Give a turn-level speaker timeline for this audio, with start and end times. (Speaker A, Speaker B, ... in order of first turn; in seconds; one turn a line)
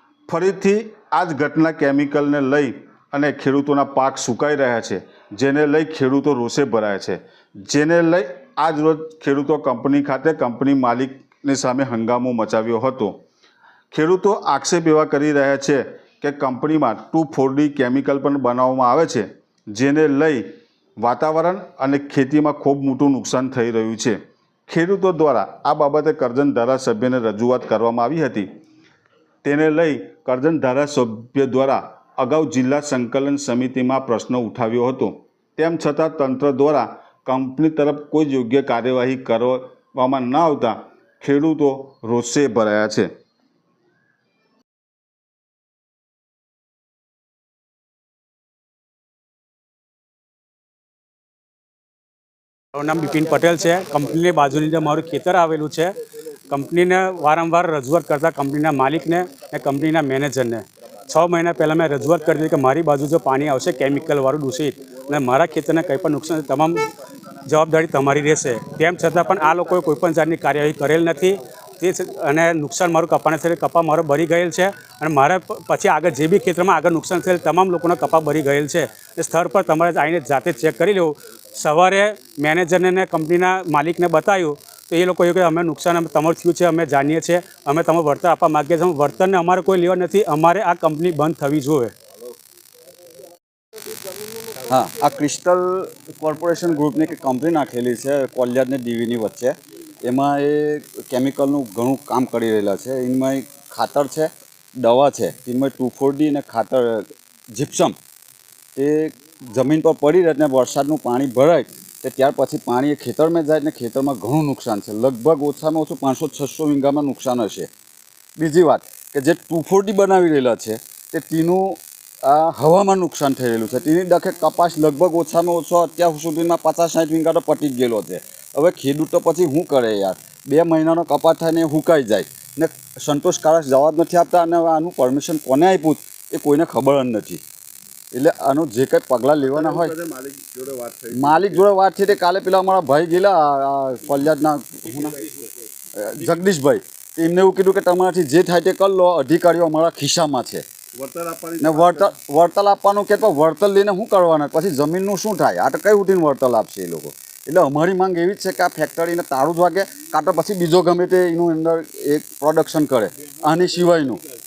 Speaker A: 0.3-13.2
Speaker A: 13.9-20.4
Speaker A: 21.0-24.2
Speaker A: 24.7-28.5
Speaker A: 29.4-43.1
Speaker B: 52.8-55.9
Speaker B: 56.5-66.9
Speaker B: 67.5-91.9
Speaker C: 94.7-108.0
Speaker C: 108.8-117.7
Speaker C: 118.4-137.4
Speaker C: 138.1-140.0
Speaker D: 139.7-141.5
Speaker C: 141.1-145.2
Speaker C: 145.9-150.6
Speaker D: 151.0-152.1
Speaker C: 151.6-164.2